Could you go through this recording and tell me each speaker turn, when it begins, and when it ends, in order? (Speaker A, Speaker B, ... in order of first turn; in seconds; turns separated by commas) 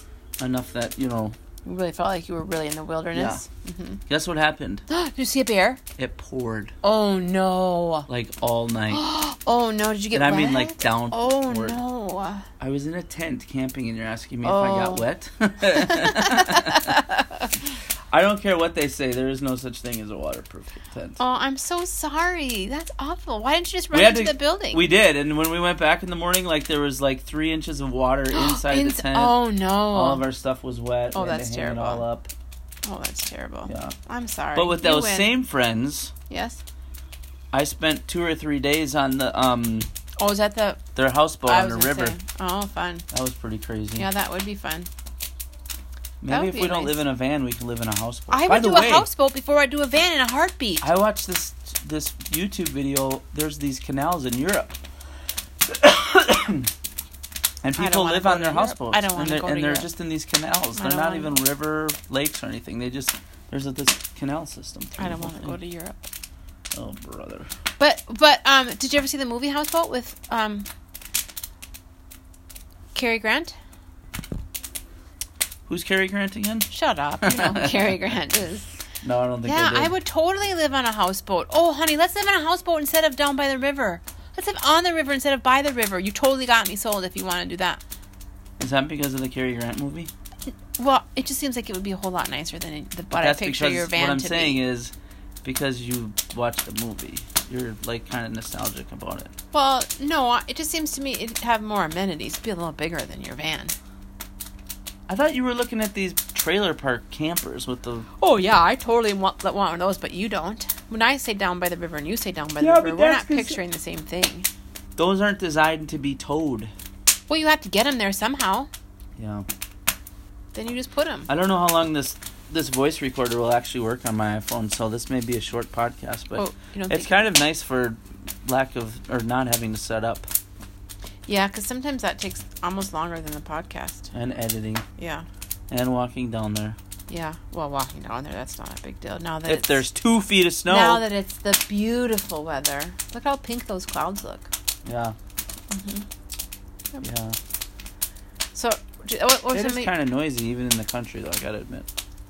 Speaker A: 0.4-1.4, Speaker B: 1.6-4.0, Speaker A: 3.1-3.4, Speaker A: 4.1-4.8, Speaker B: 4.9-5.8, Speaker A: 6.0-6.7, Speaker B: 6.8-8.1, Speaker A: 8.1-9.0, Speaker B: 8.9-12.4, Speaker A: 10.1-11.8, Speaker A: 12.6-17.0, Speaker B: 14.4-15.1, Speaker B: 15.7-17.5, Speaker A: 18.1-21.2, Speaker B: 21.2-24.8, Speaker A: 23.9-29.4, Speaker B: 28.3-30.2, Speaker A: 29.9-32.3, Speaker B: 31.1-32.0, Speaker B: 32.8-35.3, Speaker A: 33.7-34.0, Speaker A: 34.5-36.1, Speaker B: 36.3-36.6, Speaker A: 37.5-39.9, Speaker B: 40.2-40.8, Speaker A: 40.9-42.2, Speaker B: 41.5-43.0, Speaker A: 43.1-44.1, Speaker B: 44.0-44.9, Speaker A: 46.2-49.1, Speaker B: 46.3-47.0, Speaker B: 48.3-50.8, Speaker A: 50.8-54.8, Speaker A: 55.6-56.7, Speaker A: 57.6-65.6, Speaker B: 57.8-59.9, Speaker B: 60.8-61.4, Speaker B: 65.0-66.0, Speaker A: 66.7-67.5, Speaker B: 67.8-70.7, Speaker B: 72.9-73.5, Speaker A: 75.7-76.7, Speaker B: 76.7-78.7, Speaker A: 77.2-77.9, Speaker A: 79.0-79.9, Speaker B: 79.4-87.8, Speaker A: 88.6-90.1, Speaker B: 90.8-94.6, Speaker A: 93.1-99.3, Speaker B: 99.5-103.7, Speaker A: 105.1-108.1, Speaker B: 108.2-114.5, Speaker A: 112.6-113.6, Speaker A: 115.0-116.7, Speaker B: 117.3-118.7, Speaker A: 119.2-119.5, Speaker B: 120.5-121.3, Speaker A: 121.3-130.3, Speaker B: 126.3-127.2, Speaker B: 131.3-134.1, Speaker A: 134.1-134.8, Speaker B: 135.0-135.2, Speaker A: 135.7-136.8, Speaker B: 137.1-139.8, Speaker A: 139.4-141.0, Speaker B: 140.7-144.5, Speaker A: 144.8-145.2, Speaker B: 145.7-146.1, Speaker A: 147.0-147.4, Speaker B: 148.5-149.9, Speaker A: 149.5-151.9